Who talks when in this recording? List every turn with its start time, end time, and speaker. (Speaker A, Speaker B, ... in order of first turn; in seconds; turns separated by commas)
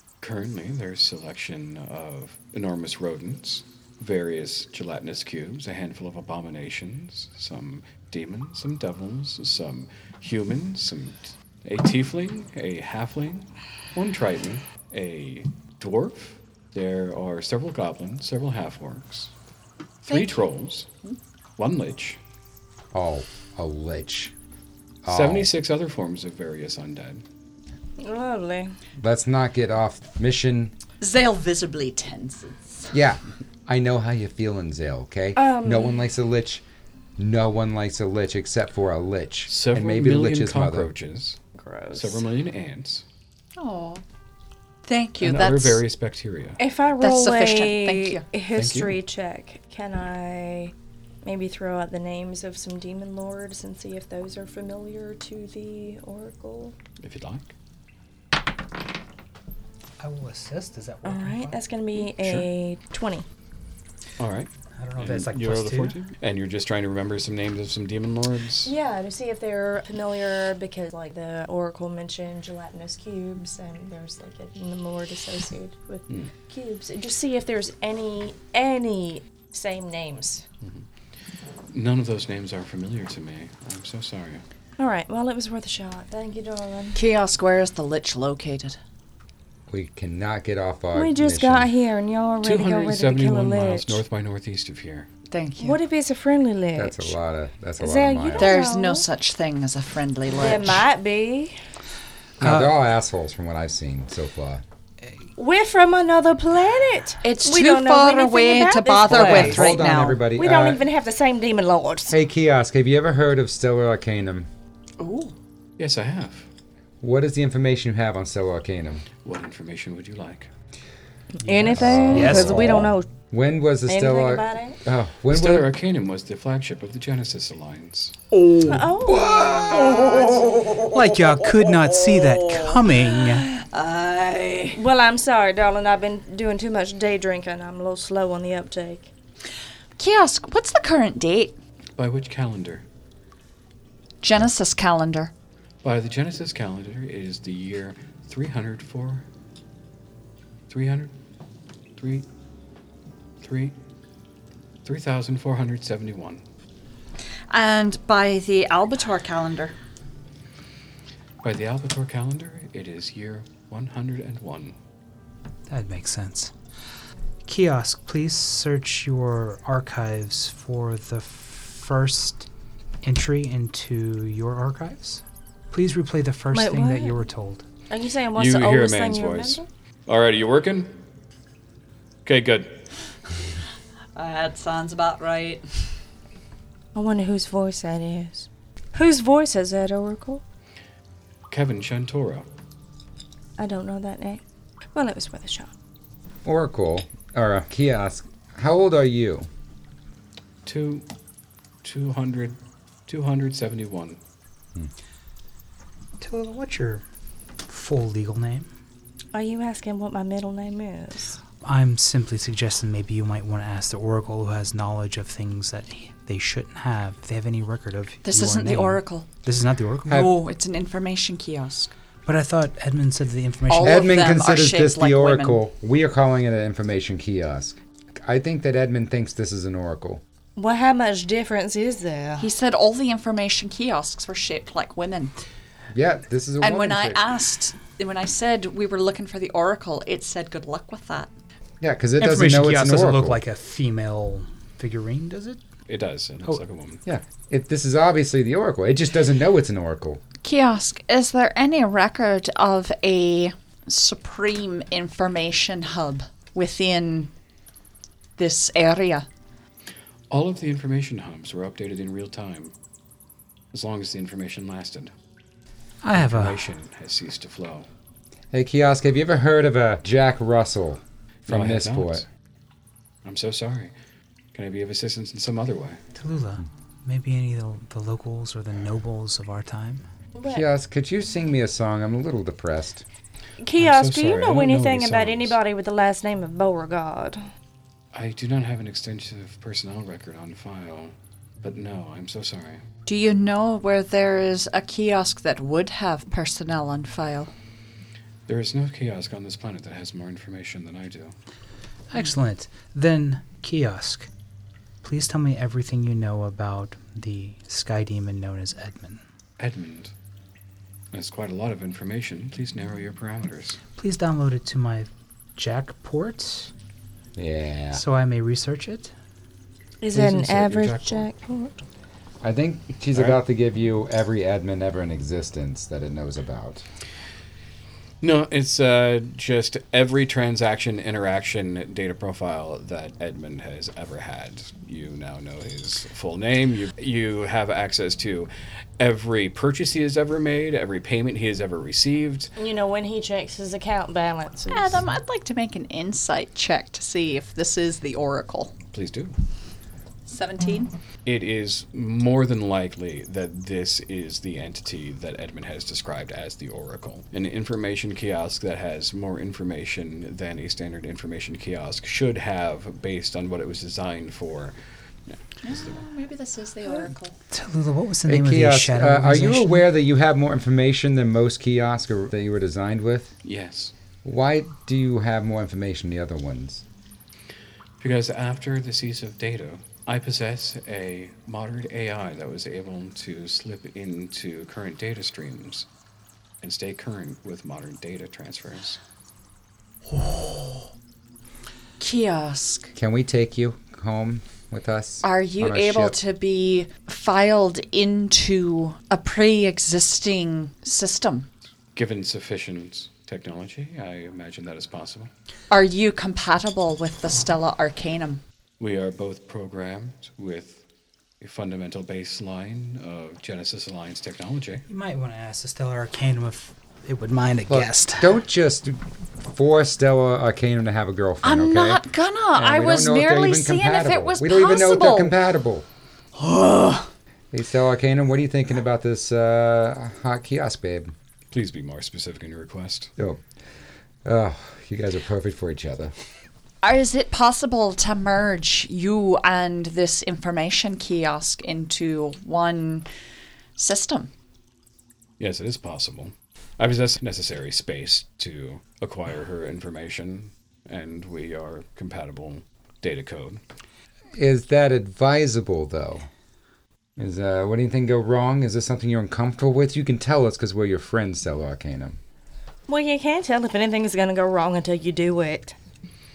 Speaker A: 0.2-19.3, Speaker A: 20.0-20.9, Speaker B: 20.1-20.4, Speaker A: 21.6-22.2, Speaker C: 22.9-24.3, Speaker C: 25.0-25.5, Speaker A: 25.1-27.2, Speaker D: 28.0-28.8, Speaker C: 29.0-30.7, Speaker B: 31.0-32.9, Speaker C: 32.9-36.6, Speaker D: 35.4-36.0, Speaker C: 37.2-40.9, Speaker A: 39.5-41.4, Speaker D: 41.6-42.2, Speaker A: 41.9-43.0, Speaker B: 43.6-44.0, Speaker B: 44.8-45.8, Speaker A: 45.2-46.6, Speaker D: 46.6-56.8, Speaker B: 47.0-48.2, Speaker A: 48.5-49.0, Speaker A: 57.0-57.5, Speaker E: 60.0-61.6, Speaker D: 61.0-63.2, Speaker A: 62.0-62.5, Speaker A: 64.2-68.7, Speaker E: 64.8-66.0, Speaker D: 68.6-80.4, Speaker A: 81.7-84.4, Speaker D: 84.8-87.0, Speaker B: 86.9-88.8, Speaker C: 89.7-91.7, Speaker D: 90.9-94.0, Speaker A: 92.4-95.1, Speaker B: 95.3-95.8, Speaker D: 95.6-97.1, Speaker C: 96.7-98.6, Speaker D: 97.8-99.0, Speaker B: 98.4-100.8, Speaker D: 100.3-101.6, Speaker C: 102.4-104.6, Speaker E: 102.4-102.7, Speaker D: 105.3-109.8, Speaker B: 107.2-110.2, Speaker C: 109.1-110.8, Speaker D: 110.3-112.1, Speaker C: 112.1-114.5, Speaker B: 115.0-115.3, Speaker A: 115.8-116.5, Speaker C: 117.0-119.0, Speaker A: 119.2-120.5, Speaker D: 121.4-123.1, Speaker E: 121.4-122.9, Speaker C: 121.7-125.7, Speaker D: 123.9-124.8, Speaker A: 125.3-128.2, Speaker B: 128.3-134.8, Speaker D: 128.6-130.4, Speaker C: 129.1-129.9, Speaker E: 130.9-133.4, Speaker D: 134.8-139.1, Speaker B: 140.0-141.6, Speaker A: 142.0-142.8, Speaker B: 144.2-145.3, Speaker A: 145.8-149.2, Speaker A: 150.7-151.1, Speaker A: 152.0-152.2, Speaker A: 153.4-153.8, Speaker A: 154.8-156.4, Speaker B: 157.5-159.8, Speaker A: 161.4-164.7, Speaker E: 165.7-166.5, Speaker E: 167.4-172.5, Speaker E: 173.0-177.6, Speaker D: 176.5-177.2, Speaker D: 177.9-179.7, Speaker A: 178.3-180.9, Speaker A: 182.2-182.8, Speaker B: 184.2-185.9, Speaker D: 186.9-190.4, Speaker A: 191.5-192.5, Speaker D: 193.6-194.4, Speaker D: 194.9-195.7, Speaker C: 196.4-199.5, Speaker A: 200.6-201.0, Speaker A: 201.8-204.2, Speaker E: 206.2-207.0, Speaker E: 207.7-208.7, Speaker D: 209.3-211.4, Speaker E: 211.6-220.3, Speaker B: 218.2-219.3, Speaker B: 220.1-221.9, Speaker C: 220.1-220.3, Speaker E: 222.2-224.1, Speaker B: 223.7-225.6, Speaker C: 223.8-230.2, Speaker D: 230.6-232.5, Speaker B: 232.4-235.3, Speaker C: 235.9-237.2, Speaker B: 236.6-241.3, Speaker C: 241.8-243.4, Speaker E: 242.2-245.6, Speaker A: 245.9-247.0, Speaker C: 247.1-250.2, Speaker B: 250.4-257.3, Speaker B: 258.4-259.3, Speaker A: 260.3-262.7, Speaker A: 263.7-265.1, Speaker E: 266.0-266.6, Speaker A: 266.1-267.9, Speaker C: 268.5-272.2, Speaker A: 271.5-272.2, Speaker A: 273.2-273.9, Speaker A: 274.5-276.0, Speaker E: 276.1-280.0, Speaker D: 280.3-280.6, Speaker C: 280.4-283.0, Speaker D: 283.6-287.4, Speaker A: 283.8-285.6, Speaker A: 288.1-292.8, Speaker B: 293.1-297.5, Speaker A: 298.5-301.4, Speaker E: 302.1-304.3, Speaker E: 305.0-309.2, Speaker A: 309.6-310.1, Speaker A: 311.1-313.8, Speaker E: 313.9-316.7, Speaker C: 317.4-318.0, Speaker E: 317.9-319.1, Speaker D: 320.0-321.8, Speaker A: 320.1-321.3, Speaker C: 322.4-326.8, Speaker A: 323.1-323.4, Speaker A: 328.2-342.5, Speaker D: 342.6-345.1, Speaker B: 344.7-348.7, Speaker A: 348.9-349.3, Speaker B: 350.2-350.9, Speaker A: 351.2-364.7, Speaker A: 365.3-366.0, Speaker B: 365.6-367.4, Speaker E: 367.5-369.8, Speaker C: 368.2-373.3, Speaker A: 373.4-373.9, Speaker C: 374.2-376.8, Speaker A: 378.0-385.9, Speaker A: 386.6-389.0, Speaker B: 390.1-390.8, Speaker B: 392.0-392.9, Speaker C: 392.9-396.2, Speaker B: 395.2-401.5, Speaker A: 401.9-405.3, Speaker B: 405.7-408.4, Speaker A: 408.8-410.8, Speaker A: 411.4-414.8, Speaker E: 414.9-418.4, Speaker C: 417.7-425.9, Speaker B: 421.4-425.4, Speaker B: 426.4-427.1, Speaker C: 427.5-431.1, Speaker A: 431.5-433.1, Speaker C: 434.2-436.1, Speaker B: 436.8-443.1, Speaker B: 443.8-444.3, Speaker A: 445.4-453.6, Speaker C: 454.3-456.2, Speaker C: 457.2-462.2, Speaker D: 462.9-465.7